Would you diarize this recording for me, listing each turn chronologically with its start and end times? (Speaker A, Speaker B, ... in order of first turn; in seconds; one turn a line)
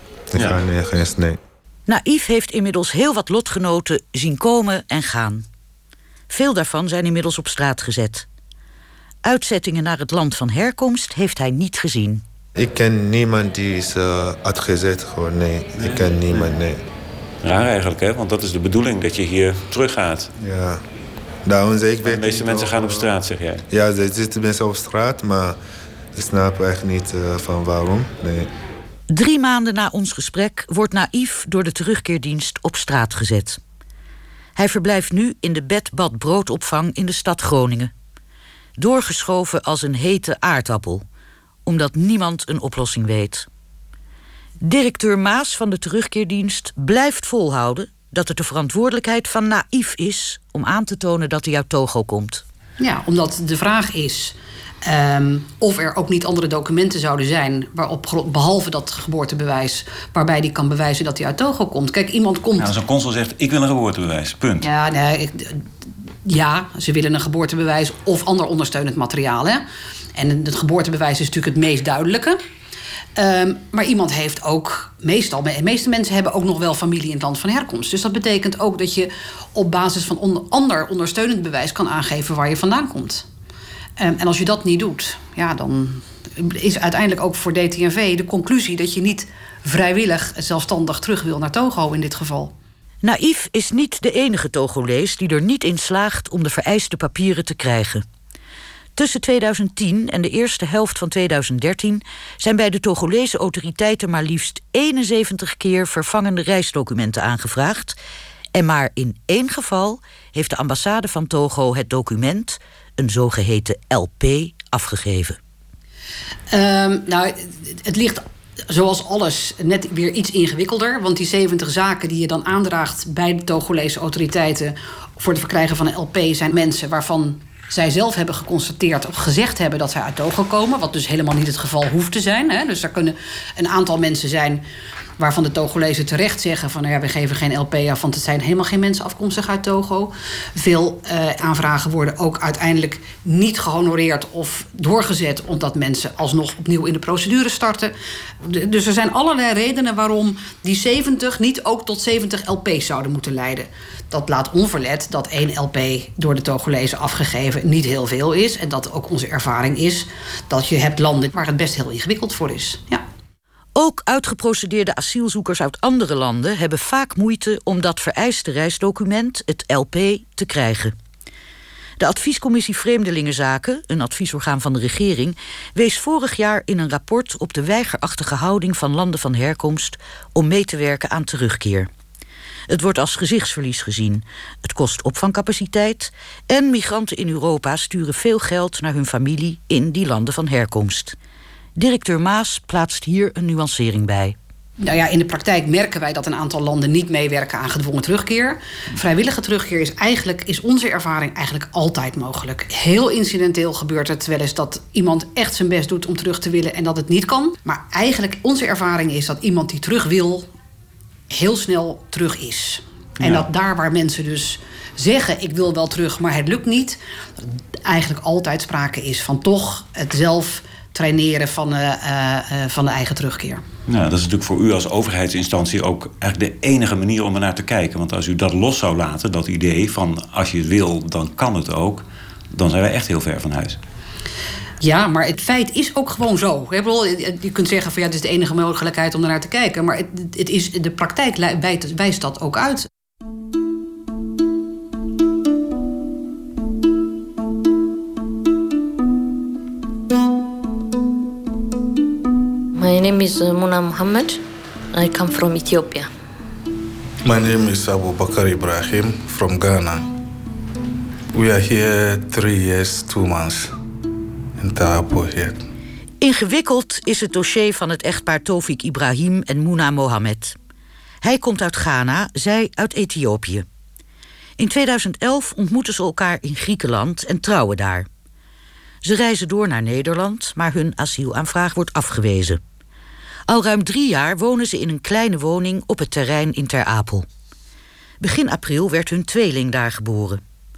Speaker A: 0.3-1.4
Speaker B: 0.3-0.6
Speaker C: 1.9-5.4
Speaker C: 6.3-8.2
Speaker C: 9.2-12.2
Speaker A: 12.6-16.8
Speaker B: 15.8-16.5
Speaker B: 17.4-20.3
Speaker A: 20.4-20.8
Speaker A: 21.4-23.0
Speaker B: 22.0-23.6
Speaker A: 23.7-25.6
Speaker A: 26.1-28.5
Speaker C: 29.1-33.6
Speaker C: 34.5-37.9
Speaker C: 38.8-41.0
Speaker C: 41.6-43.5
Speaker C: 44.6-52.4
Speaker D: 52.8-62.7
Speaker B: 62.6-64.7
Speaker D: 64.6-65.6
Speaker D: 66.2-69.6
Speaker D: 70.1-72.4
Speaker D: 73.2-83.3
Speaker D: 84.0-92.5
Speaker C: 93.0-98.0
Speaker C: 99.0-108.0
Speaker C: 108.5-115.4
Speaker D: 116.5-134.6
Speaker D: 135.2-163.0
Speaker C: 163.7-170.9
Speaker C: 172.0-181.9
Speaker C: 182.7-191.2
Speaker C: 191.8-194.3
Speaker D: 194.8-210.5
Speaker D: 211.3-217.0
Speaker B: 213.2-213.5
Speaker D: 217.8-223.6
Speaker B: 223.9-233.8
Speaker D: 234.8-242.9
Speaker E: 252.8-254.4
Speaker E: 254.9-256.1
Speaker F: 257.2-260.1
Speaker F: 261.3-263.7
Speaker F: 264.6-265.6
Speaker C: 266.2-270.6
Speaker C: 271.2-273.6
Speaker C: 274.6-278.1
Speaker C: 279.0-282.6
Speaker C: 283.5-287.2
Speaker C: 288.2-290.4